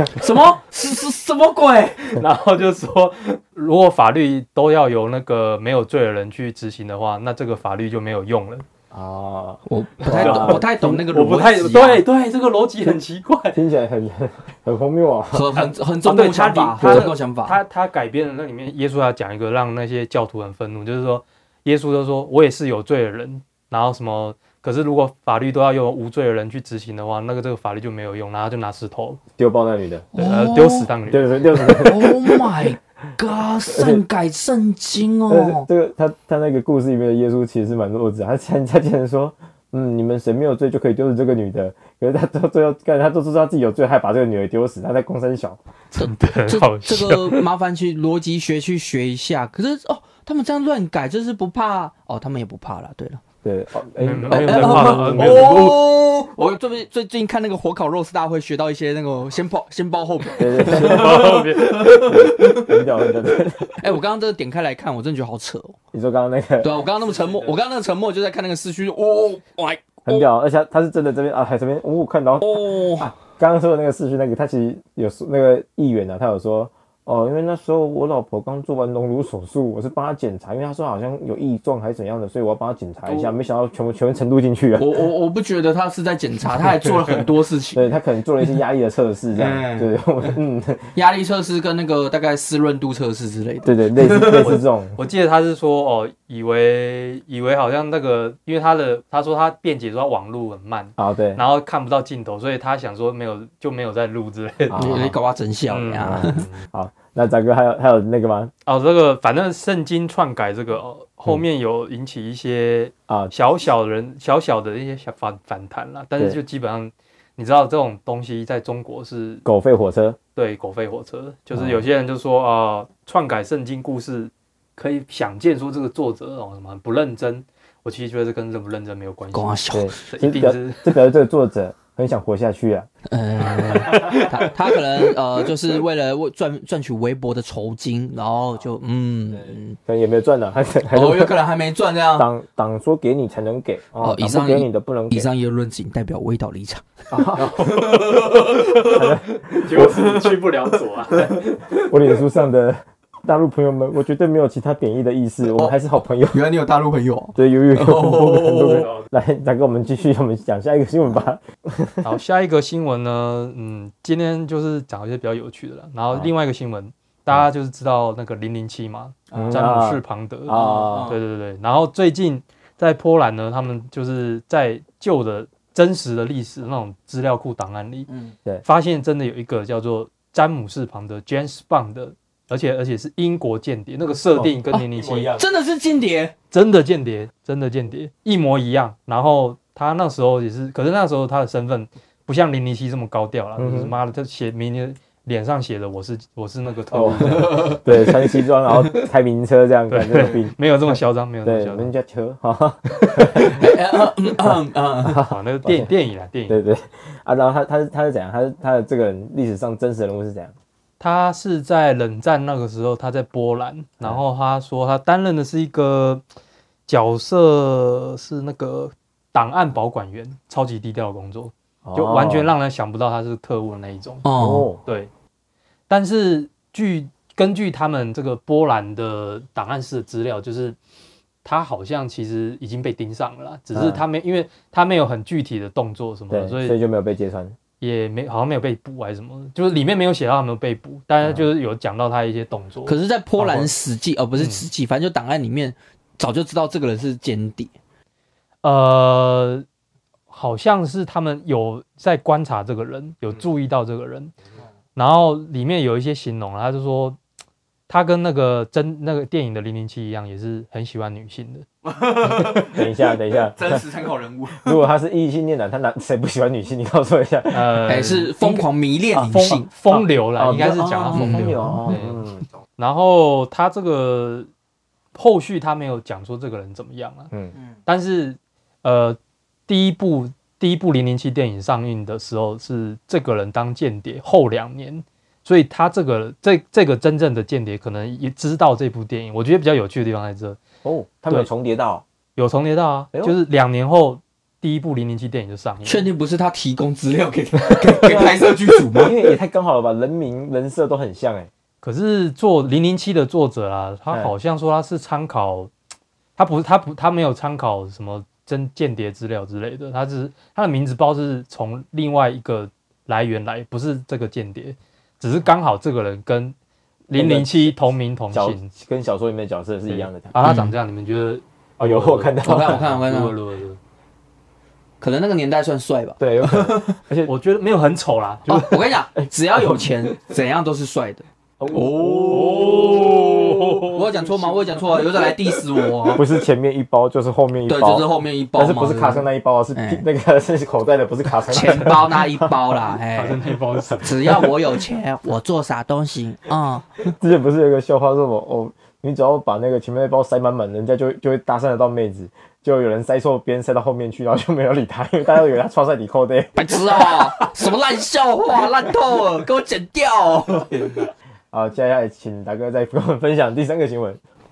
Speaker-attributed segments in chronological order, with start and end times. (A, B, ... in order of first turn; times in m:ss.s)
0:00.1-0:02.1 A
0:02.1-0:08.6 B
0:08.9-0:11.0 C
0:09.7-0:12.0 A
0:10.0-0:13.6 B
0:13.5-0:15.5 C
0:15.3-0:17.6 A
0:15.5-0:29.2 B
0:16.8-0:17.1 C
0:29.4-0:30.1 C
0:30.2-0:30.9 A
0:30.2-0:31.8 B
0:31.1-0:32.4 C
0:31.7-0:35.7 A
0:33.7-0:34.0 C
0:35.3-0:45.6 C
0:45.9-0:47.4 B
0:46.0-0:53.2 A
0:53.4-0:55.8 C
0:54.0-0:55.8 B
0:54.3-1:02.9 A
1:00.4-1:03.9 C
1:00.7-1:02.0 B
1:03.7-1:05.8 A
1:05.9-1:06.8 C
1:06.6-1:10.3 A
1:07.0-1:07.6 B
1:10.1-1:25.0 C
1:12.4-1:13.1 A
1:23.1-1:23.3 A
1:24.8-1:27.9 A
1:26.4-1:27.2 B
1:27.7-1:30.9 C
1:29.4-1:30.3 A
1:30.9-1:34.5 A
1:33.6-1:35.0 C
1:34.3-1:45.1 B
1:41.0-1:41.4 C
1:44.7-1:45.2 C
1:44.8-1:46.4 A
1:45.7-1:46.6 B
1:46.0-1:48.5 C
1:48.7-1:59.4 B
1:53.1-1:53.3 C
1:59.4-2:00.2 C
2:00.4-2:11.0 B
2:01.5-2:01.9 C
2:09.3-2:09.9 A
2:09.7-2:12.9 C
2:13.1-2:19.8 A
2:13.6-2:14.5 C
2:13.7-2:14.3 B
2:19.3-2:21.4 C
2:20.9-2:22.3 A
2:22.2-2:25.3 C
2:24.0-2:26.8 A
2:27.1-2:27.8 C
2:27.4-2:29.0 B
2:27.6-2:29.0 A
2:28.8-2:30.4 C
2:29.6-2:31.6 B
2:31.4-2:36.4 C
2:36.3-2:38.9 A
2:37.4-2:42.1 C
2:38.7-2:39.1 B
2:42.0-2:50.6 B
2:49.3-2:49.6 A
2:49.3-2:51.2 C
2:50.5-2:51.2 A
2:51.1-2:58.1 B
2:58.1-2:58.4 A
2:58.6-3:05.4 B
3:04.4-3:05.5 C
3:04.7-3:06.3 A
3:06.5-3:17.9 B
3:13.6-3:13.9 C
3:16.9-3:20.6 C
3:19.9-3:21.9 B
3:21.4-3:25.9 C
3:23.4-3:25.2 A
3:25.3-3:26.6 B
3:26.5-3:30.5 C
3:31.0-3:36.2 B
3:36.9-3:44.3 B
3:41.8-3:42.5 C
3:44.2-3:44.7 A
3:44.4-3:44.8 C
3:44.8-3:45.1 B
3:45.9-3:50.8 B
3:51.4-3:56.8 B
3:53.7-3:54.0 C
3:56.3-3:57.6 C
3:57.8-4:03.6 B
4:02.9-4:07.7 A
4:03.4-4:03.7 C
4:04.4-4:04.6 B
4:08.6-4:09.6 B
4:10.3-4:14.3 B
4:15.0-4:17.2 B
4:17.9-4:21.7 B
4:21.8-4:24.8 A
4:22.2-4:22.7 B
4:22.6-4:23.9 C
4:24.5-4:28.0 C
4:27.5-4:34.5 B
4:27.9-4:29.7 A
4:29.9-4:32.5 C
4:31.1-4:32.0 A
4:35.2-4:37.3 B
4:37.9-4:50.6 B
4:50.8-4:52.0 C
4:52.4-4:56.1 B
4:55.8-4:59.2 A
4:57.8-5:01.5 C
5:01.8-5:05.7 B
5:06.4-5:16.6 B
5:17.1-5:17.8 C
5:17.1-5:18.7 B
5:18.3-5:20.3 C
5:19.9-5:23.8 B
5:20.4-5:20.7 A
5:21.8-5:22.9 C
5:22.4-5:23.4 A
5:25.0-5:27.0 A
5:26.2-5:27.3 C
5:27.2-5:28.9 B
5:28.5-5:36.2 A
5:29.2-5:30.1 C
5:31.6-5:34.0 C
5:32.3-5:35.0 B
5:36.1-5:43.0 C
5:37.7-5:40.0 A
5:41.4-5:43.4 A
5:43.1-5:44.5 B
5:43.9-5:44.4 C
5:44.0-5:47.1 A
5:47.1-5:57.2 C
5:56.6-6:01.1 A
6:01.5-6:04.2 C